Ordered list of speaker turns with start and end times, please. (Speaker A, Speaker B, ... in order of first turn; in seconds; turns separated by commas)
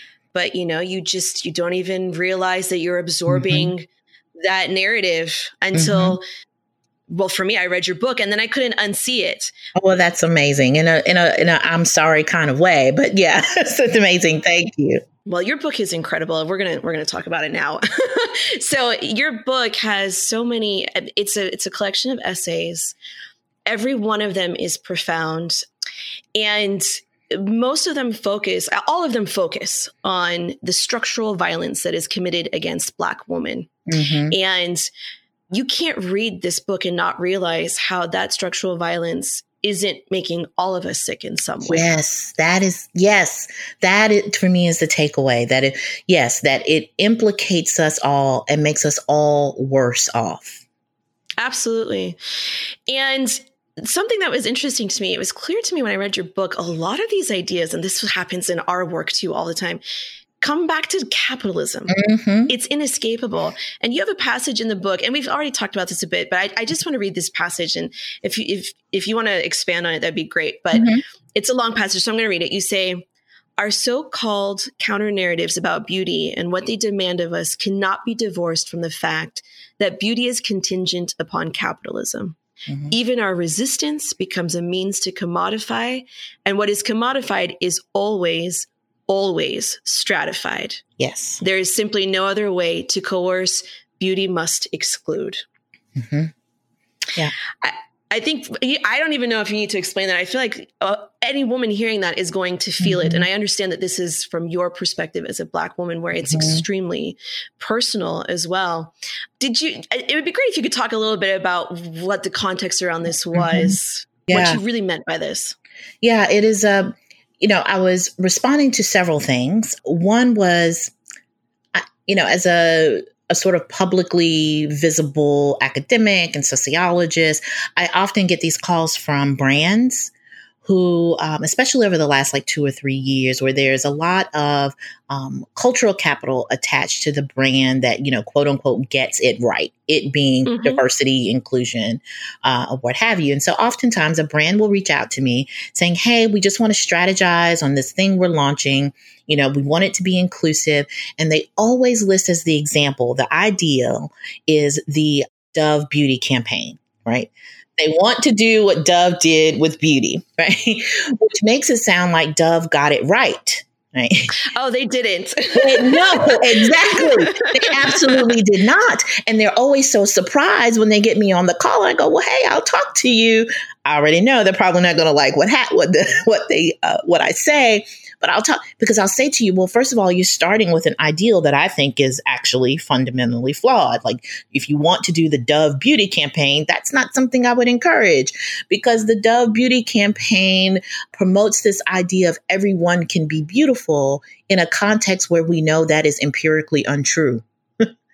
Speaker A: 0.3-3.9, Speaker B: 3.3-3.7, Speaker A: 4.4-6.2, Speaker B: 5.8-6.2, Speaker A: 7.1-9.5, Speaker B: 9.8-15.0, Speaker A: 15.3-22.9, Speaker A: 23.7-25.6, Speaker A: 26.4-33.7, Speaker B: 33.9-34.4, Speaker A: 34.3-34.9, Speaker A: 35.5-41.9, Speaker B: 41.6-50.6, Speaker A: 51.4-52.2, Speaker A: 52.9-59.8, Speaker A: 60.4-73.0, Speaker B: 61.9-62.5, Speaker B: 70.7-71.0, Speaker A: 73.6-82.4, Speaker A: 82.9-90.8, Speaker B: 91.0-91.4, Speaker A: 91.4-95.4, Speaker B: 96.0-96.3, Speaker A: 97.6-115.6, Speaker B: 102.8-103.2, Speaker B: 106.2-106.6, Speaker B: 113.3-113.8, Speaker B: 114.3-114.6, Speaker B: 116.0-120.9, Speaker B: 121.7-130.1, Speaker B: 130.6-164.3, Speaker A: 140.5-140.8, Speaker A: 164.5-168.3, Speaker B: 165.6-197.9